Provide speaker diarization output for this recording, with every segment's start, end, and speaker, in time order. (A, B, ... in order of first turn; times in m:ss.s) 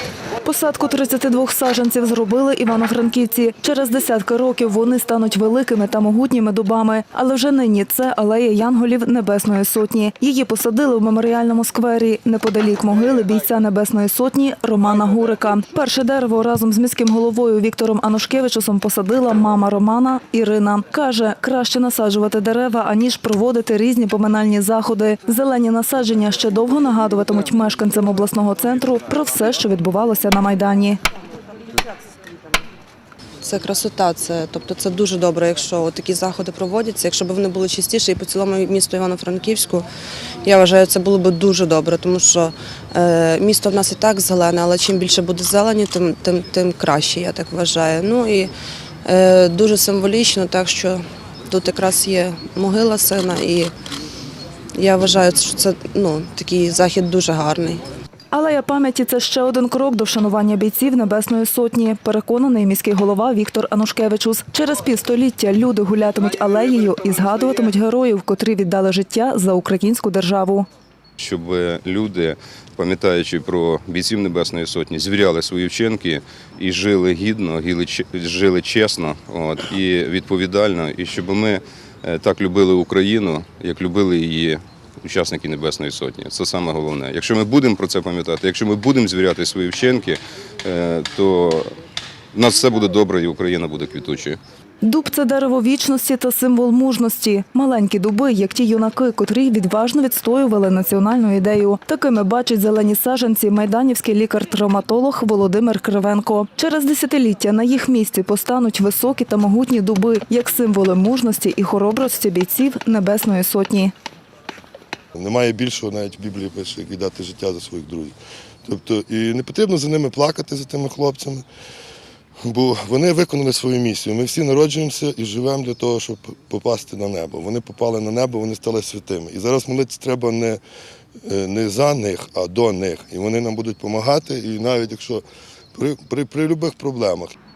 0:00.4-0:31.0 A
0:33.4-0:39.9 B
0:40.4-0:48.5 B
0:49.0-0:53.7 B
0:54.8-0:57.8 B
0:58.3-1:10.7 A
1:11.2-1:31.7 C
1:32.3-1:34.4 C
1:34.8-1:53.9 A
1:55.2-2:01.4 D
2:02.5-2:10.6 D
2:11.2-2:15.2 D
2:15.8-2:17.4 D